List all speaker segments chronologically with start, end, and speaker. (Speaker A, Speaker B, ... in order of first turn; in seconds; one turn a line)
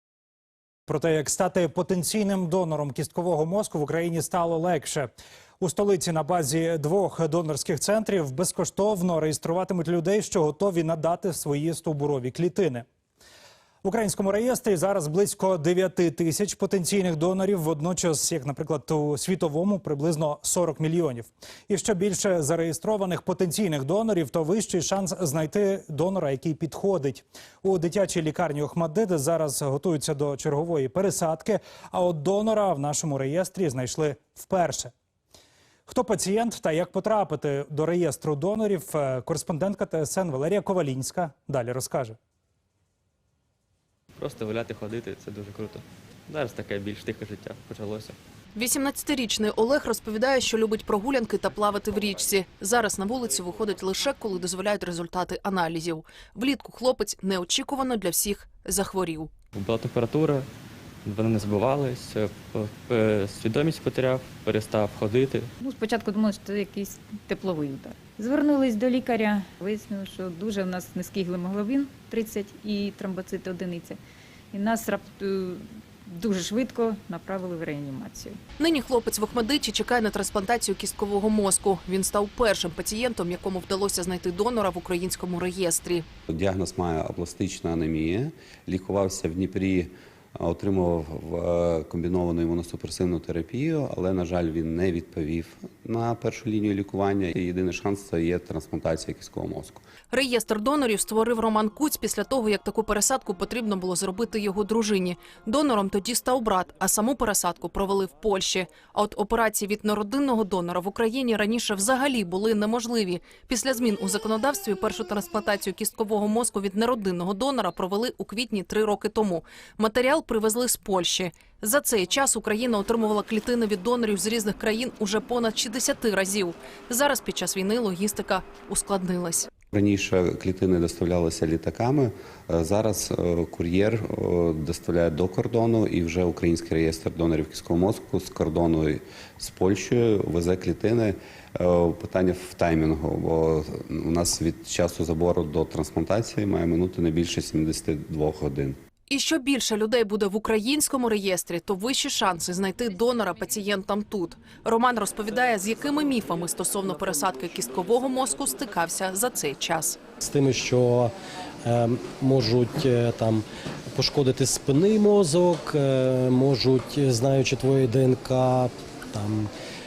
Speaker A: 0.9-5.1
Speaker A: 5.6-12.8
Speaker A: 13.8-34.9
Speaker A: 35.9-42.2
Speaker B: 44.1-48.2
Speaker C: 48.5-59.3
Speaker B: 59.5-60.5
Speaker B: 61.0-65.5
Speaker D: 65.6-74.0
Speaker D: 74.5-78.4
Speaker C: 78.6-86.0
Speaker E: 86.3-99.8
Speaker C: 100.1-129.5
Speaker E: 129.7-148.8
Speaker C: 149.1-160.0
Speaker F: 160.2-161.1
Speaker F: 161.6-169.5